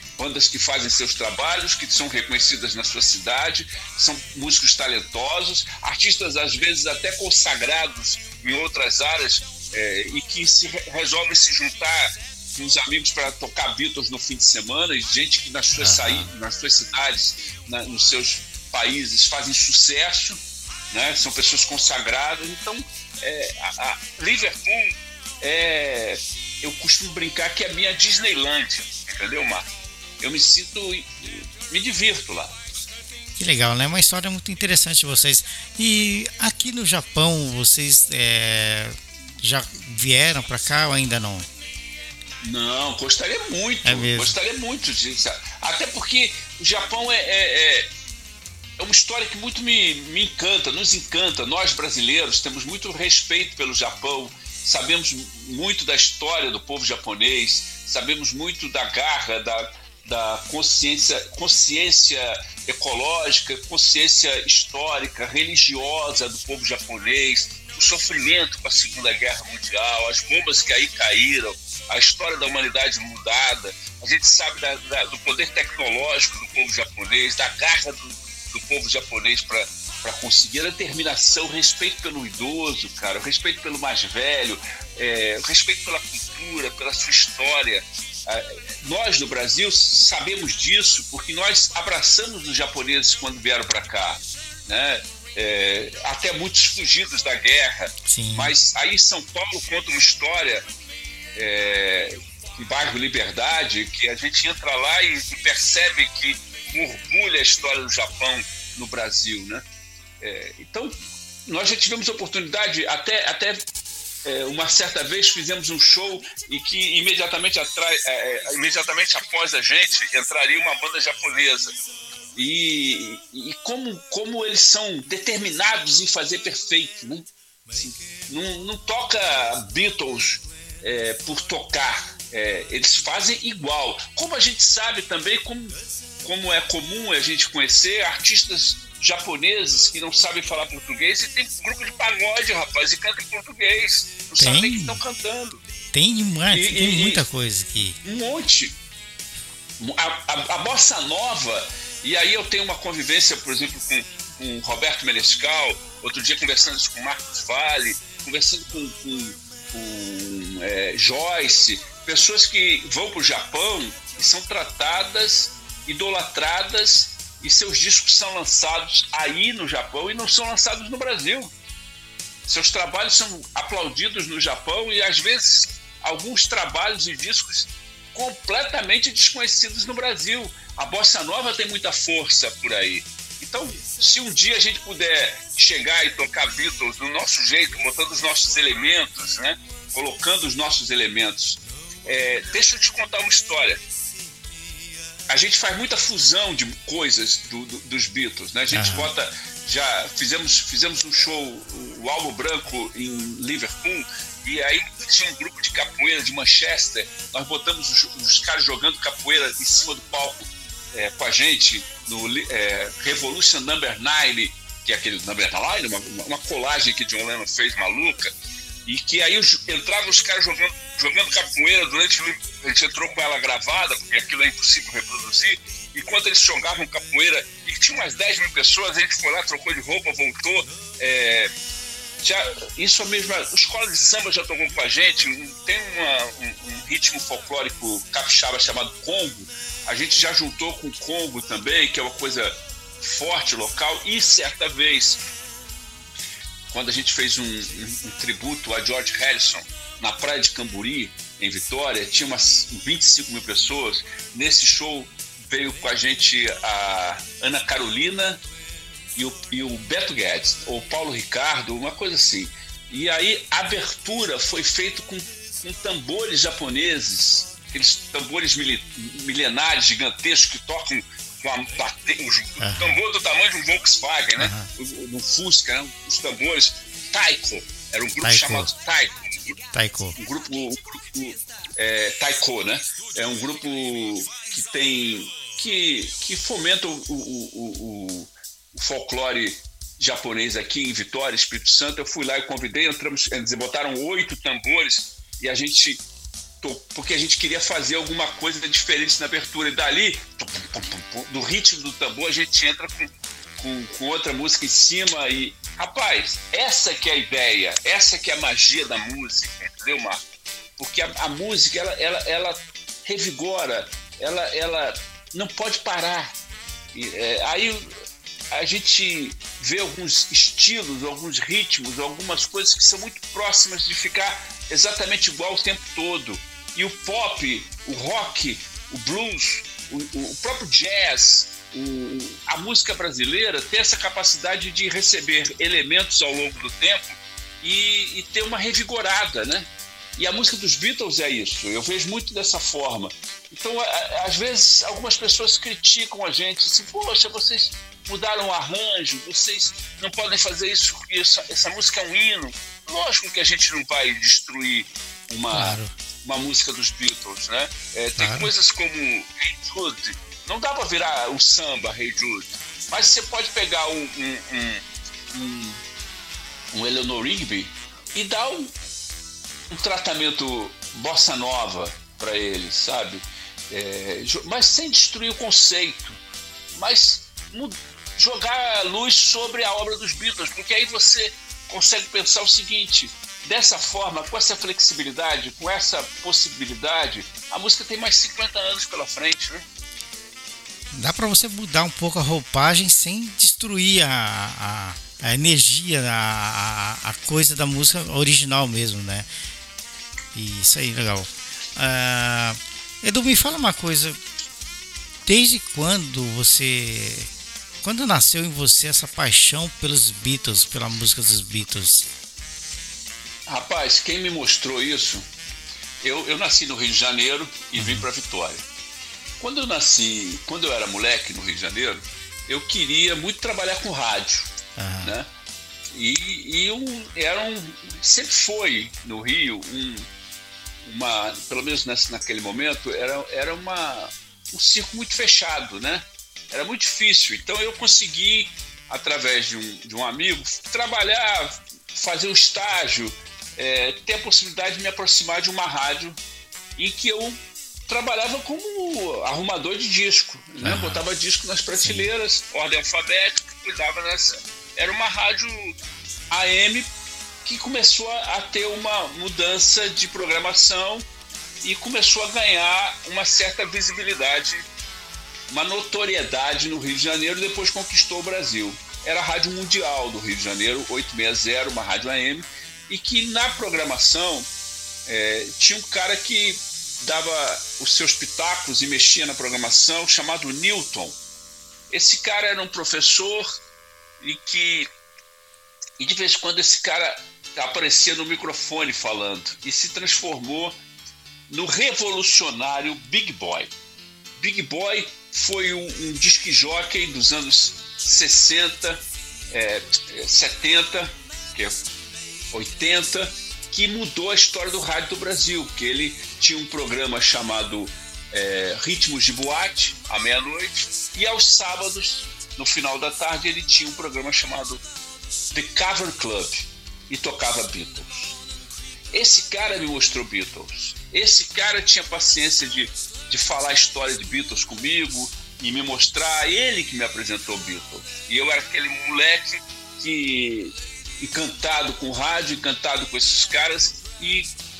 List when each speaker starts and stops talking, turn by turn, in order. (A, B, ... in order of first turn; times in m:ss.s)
0:00.2-0:29.7 A
0:15.8-0:16.3 B
0:30.2-0:32.6 A
0:33.4-0:41.5 B
0:42.4-0:47.9 A
0:43.8-0:44.4 B
0:48.8-1:40.7 A
1:38.0-1:38.5 B
1:41.4-1:49.6 A
1:50.2-1:53.7 A
1:54.2-2:01.8 A
2:02.4-2:25.6 A
2:24.4-2:25.0 B
2:25.9-2:28.0 B
2:26.5-2:27.2 A
2:28.0-2:28.8 A
2:29.8-2:51.5 A
2:52.5-3:13.8 A
3:15.3-3:38.3 A
3:18.7-3:19.1 B
3:38.9-3:51.5 A
3:52.2-4:05.2 A
4:06.7-4:18.4 A
4:19.2-4:39.6 A
4:32.6-4:33.0 B
4:34.4-4:34.7 B
4:38.2-4:38.7 B
4:39.7-4:40.2 B
4:40.2-4:56.0 A
4:56.6-5:10.2 A
5:10.8-5:16.4 A
5:16.9-5:17.9 A
5:18.5-6:05.8 A
5:55.5-5:55.9 B
5:58.2-5:58.5 B
6:06.7-6:08.7 A
6:09.7-6:16.2 A
6:16.8-6:29.7 A
6:30.9-6:39.3 B
6:40.3-6:44.2 B
6:45.2-6:47.3 B
6:47.8-6:52.1 B
6:53.5-6:55.3 A
6:56.0-6:58.6 A
6:57.8-6:58.1 B
6:59.4-7:05.3 A
7:04.8-7:05.2 B
7:05.9-7:10.1 A
7:10.8-7:26.2 A
7:26.8-7:35.8 A
7:30.6-7:31.0 B
7:31.8-7:32.1 B
7:36.3-7:36.9 A
7:37.4-7:41.1 A
7:41.6-7:44.6 A
7:45.5-7:54.5 A
7:55.1-8:01.2 A
8:01.9-8:03.6 A
8:04.2-8:04.9 A
8:06.0-8:10.8 A
8:11.5-8:13.7 A
8:14.4-8:21.8 A
8:22.5-8:34.8 A
8:35.5-8:38.4 A
8:39.1-8:54.5 A